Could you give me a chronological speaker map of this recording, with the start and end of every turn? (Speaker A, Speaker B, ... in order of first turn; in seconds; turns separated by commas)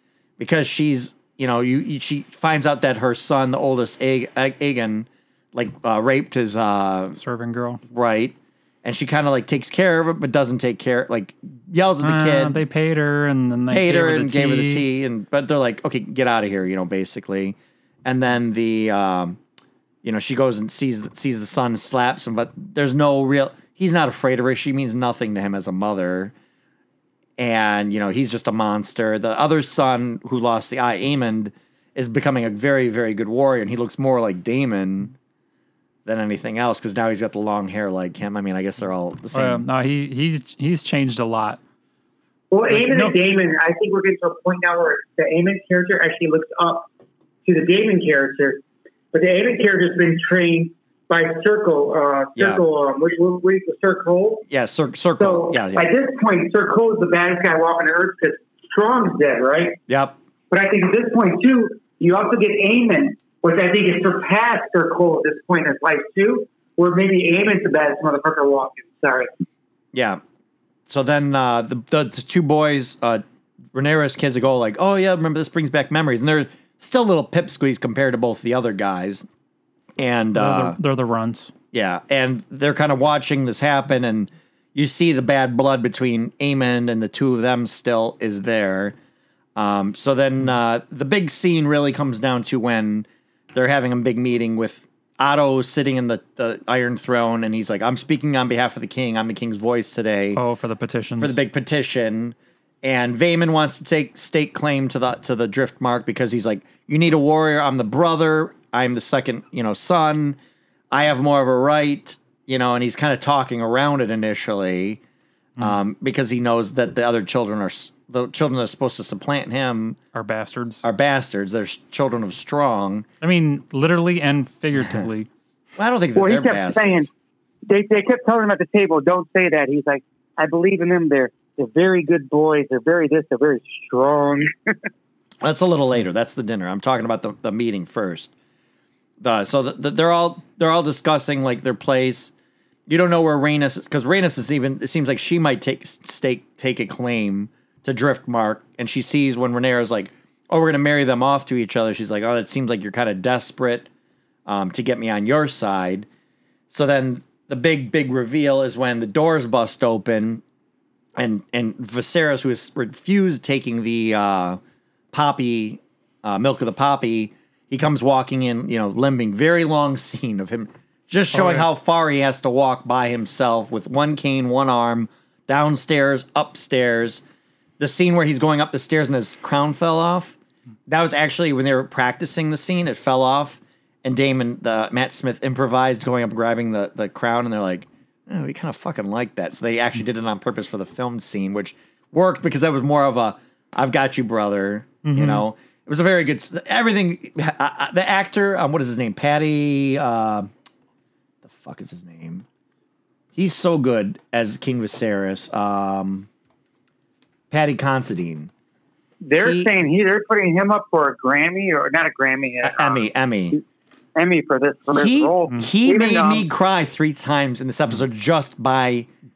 Speaker A: 0.4-7.2, Speaker B: 7.2-7.8, Speaker A: 7.9-12.6, Speaker B: 12.0-14.8, Speaker A: 13.7-19.4, Speaker A: 20.0-26.3, Speaker A: 27.4-35.1, Speaker A: 36.0-39.6, Speaker B: 39.3-41.6, Speaker C: 42.5-46.9, Speaker B: 42.7-43.1, Speaker C: 47.5-54.5, Speaker A: 52.4-52.6, Speaker A: 54.5-55.9, Speaker C: 55.2-59.8, Speaker A: 59.9-60.1, Speaker C: 60.5-69.3, Speaker A: 69.9-70.2, Speaker A: 70.8-73.2, Speaker A: 73.7-79.2, Speaker A: 80.0-80.8, Speaker B: 80.3-81.5, Speaker A: 81.7-88.9, Speaker A: 89.5-100.4, Speaker B: 100.3-101.4, Speaker A: 101.2-110.4, Speaker A: 110.9-115.0, Speaker A: 115.6-120.0, Speaker B: 120.1-120.8, Speaker A: 120.8-123.0, Speaker B: 123.2-125.3, Speaker A: 124.8-125.1, Speaker A: 125.8-127.1, Speaker C: 126.2-127.1, Speaker C: 127.7-134.8, Speaker A: 135.4-138.3, Speaker A: 139.2-142.3, Speaker A: 142.9-153.9, Speaker A: 154.4-156.1, Speaker A: 156.7-160.4, Speaker A: 161.2-164.6, Speaker A: 165.1-177.2, Speaker B: 171.3-171.7, Speaker A: 177.8-180.4, Speaker A: 180.9-200.5, Speaker B: 195.0-195.4, Speaker A: 201.4-202.4, Speaker A: 203.3-206.3, Speaker A: 207.5-208.5, Speaker C: 209.2-213.6, Speaker A: 209.4-209.7, Speaker A: 212.6-213.6, Speaker C: 214.2-216.5, Speaker A: 214.9-219.1